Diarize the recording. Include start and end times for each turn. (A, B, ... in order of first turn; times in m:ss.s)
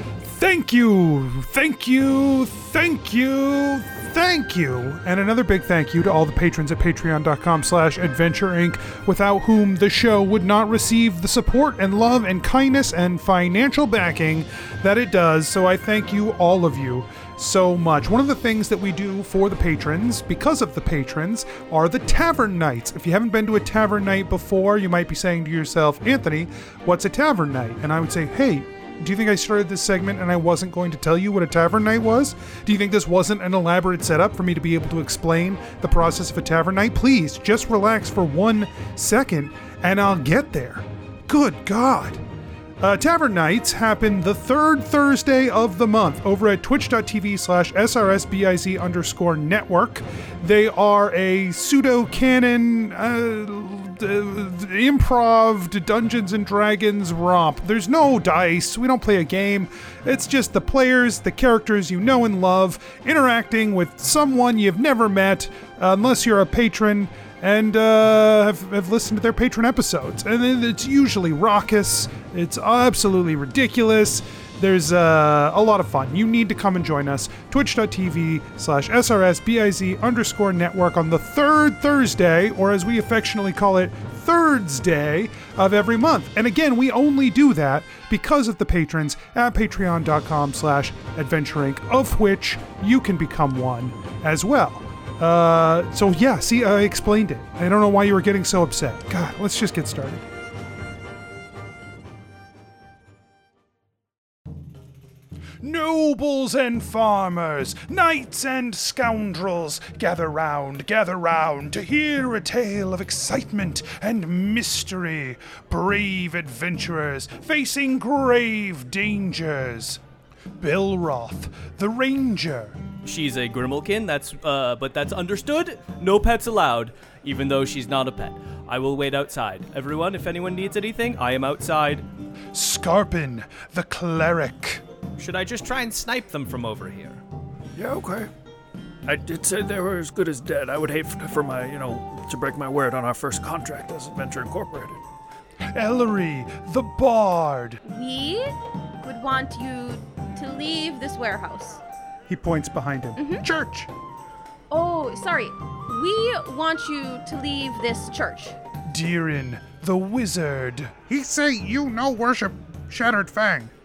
0:00.2-0:42.2 A
0:42.8-1:40.2 A
1:45.6-2:00.0 A
2:00.6-2:02.8 A
2:03.0-2:12.1 B
2:12.5-2:14.8 A
2:15.2-2:17.2 B
2:17.8-2:18.3 C
2:19.1-2:25.0 C
2:25.7-2:27.8 A
2:27.8-2:31.8 D
2:32.3-2:33.9 A
2:33.2-2:33.4 D
2:34.7-2:38.6 D
2:38.8-2:43.7 A